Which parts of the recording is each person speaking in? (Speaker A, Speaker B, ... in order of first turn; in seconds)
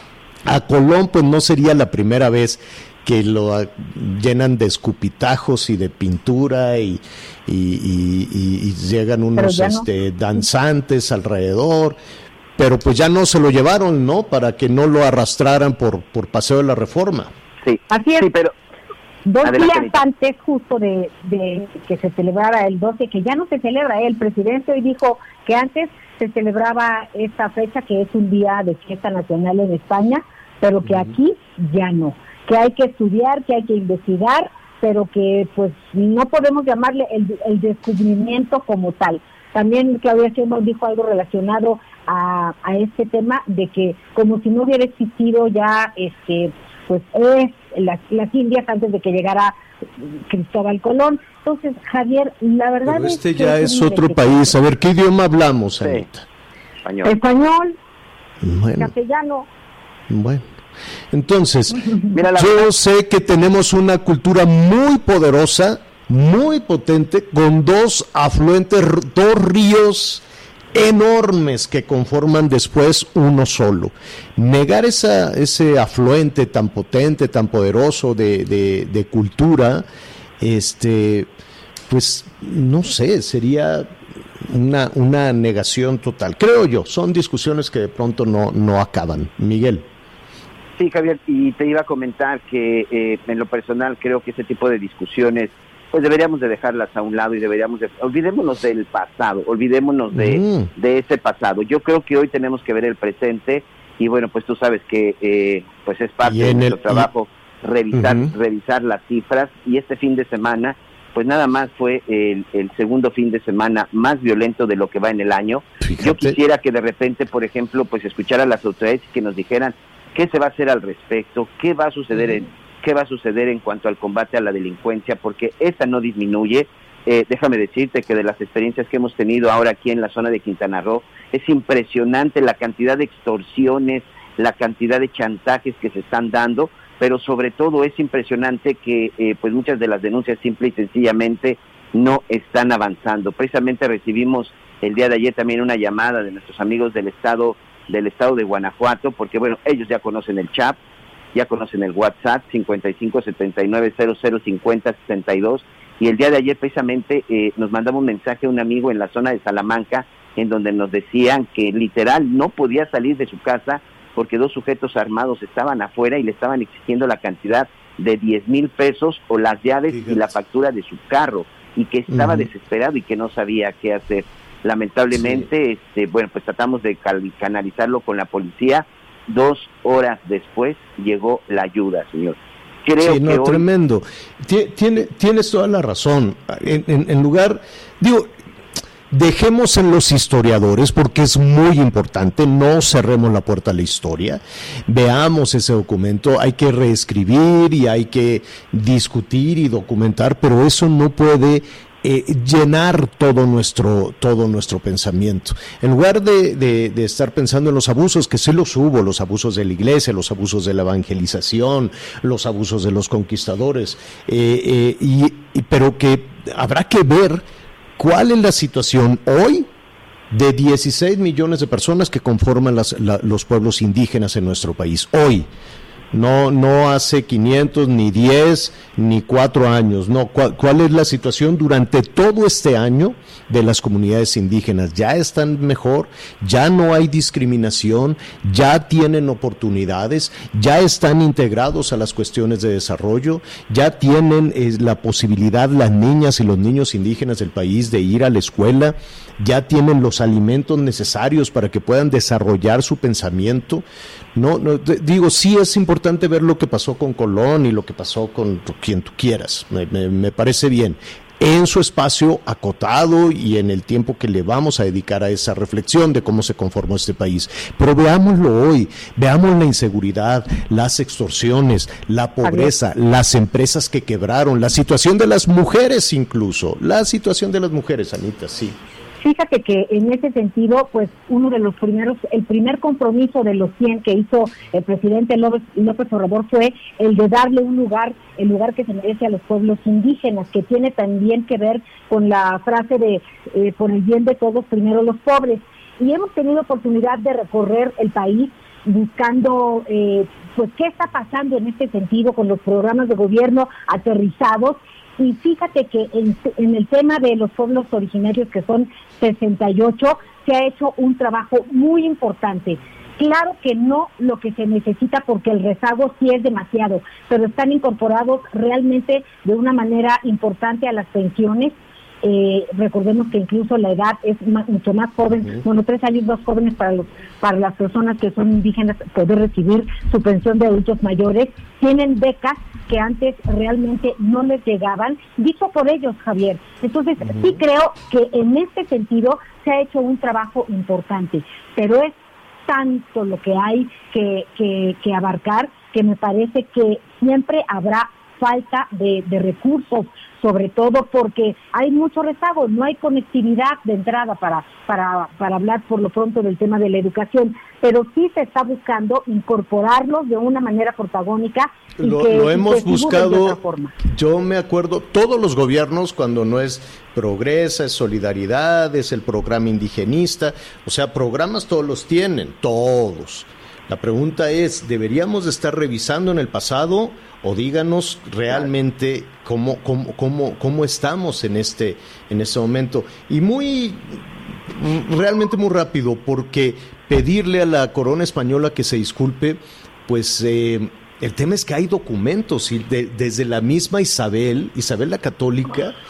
Speaker A: 0.5-12.0, 12.6-17.3, 30.8-31.1, 52.8-56.2, 58.4-58.9, 60.1-60.5, 61.1-79.8, 80.4-81.3, 81.9-83.9, 84.4-89.9, 100.1-100.7, 106.2-107.1, 107.9-108.3, 115.8-116.4, 169.9-170.3, 172.1-172.5, 175.1-175.5, 183.0-188.3, 189.1-217.4, 218.0-219.7, 220.3-225.5, 226.1-253.8, 254.3-278.8, 337.2-337.6, 362.0-395.9
Speaker B: 9.4-9.8, 17.9-18.3, 19.2-54.5, 57.0-57.8, 58.8-59.5, 61.8-62.1, 272.4-272.7, 279.2-342.1, 342.7-363.9
Speaker C: 17.6-18.5, 19.4-19.9, 56.8-57.1, 62.1-62.7, 90.8-150.8, 151.3-183.6